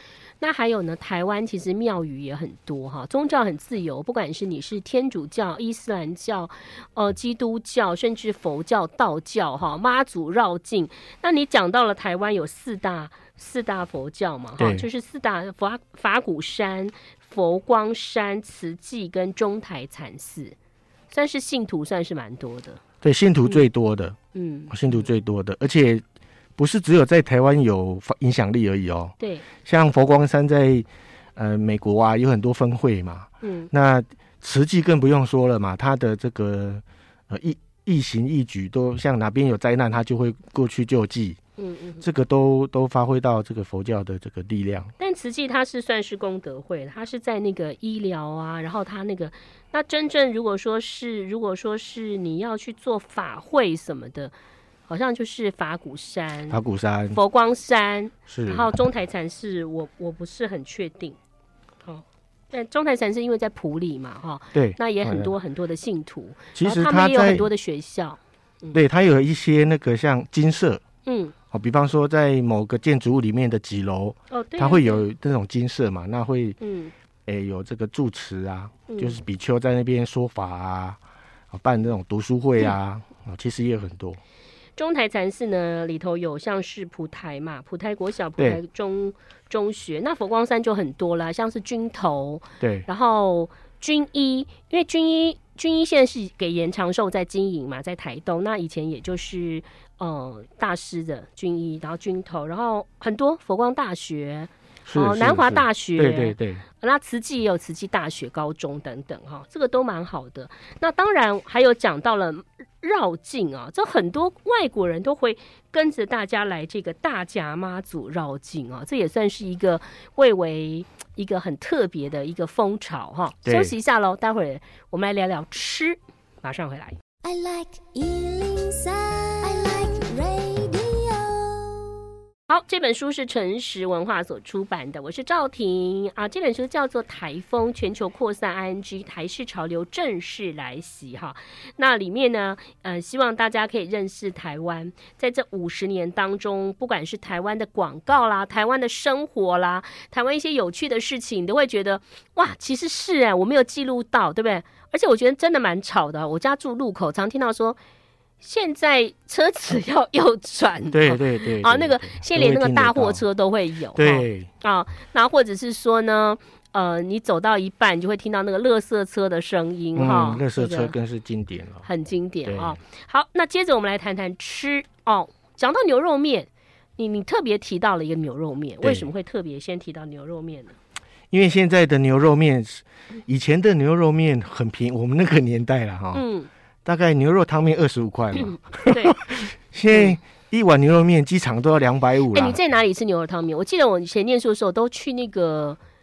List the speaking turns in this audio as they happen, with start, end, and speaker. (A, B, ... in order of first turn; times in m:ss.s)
0:00.4-0:20.6 A
0:14.6-0:14.9 B
0:21.1-0:22.8 A
0:23.0-0:24.2 B
0:24.3-0:25.1 A
0:24.7-0:26.0 B
0:26.6-0:41.4 B
0:29.2-0:29.5 A
0:33.4-0:33.7 A
0:41.6-0:42.0 A
0:42.0-0:44.9 B
0:45.0-0:54.3 A
0:54.9-0:56.6 A
0:56.5-0:57.2 B
0:57.1-1:01.2 A
0:58.3-0:58.7 B
1:01.8-1:08.8 A
1:04.5-1:05.3 B
1:06.6-1:07.5 B
1:08.7-1:10.8 B
1:11.1-1:11.4 A
1:11.5-1:16.6 B
1:14.3-1:15.0 A
1:16.6-1:16.9 A
1:17.3-1:21.0 B
1:18.9-1:19.2 A
1:21.5-1:24.2 B
1:24.8-2:07.0 A
1:32.6-1:32.9 B
1:44.9-1:46.6 B
2:03.4-2:03.7 B
2:07.2-2:12.0 C
2:12.5-2:37.8 A
2:38.4-2:50.9 A
2:40.9-2:43.2 B
2:44.0-2:44.5 B
2:50.0-2:51.9 B
2:51.8-3:00.8 A
2:52.5-2:52.8 B
2:58.8-2:59.1 B
3:01.3-3:06.2 B
3:06.1-3:06.5 A
3:06.8-3:12.6 B
3:08.4-3:09.2 A
3:09.9-3:10.2 A
3:12.3-3:15.8 A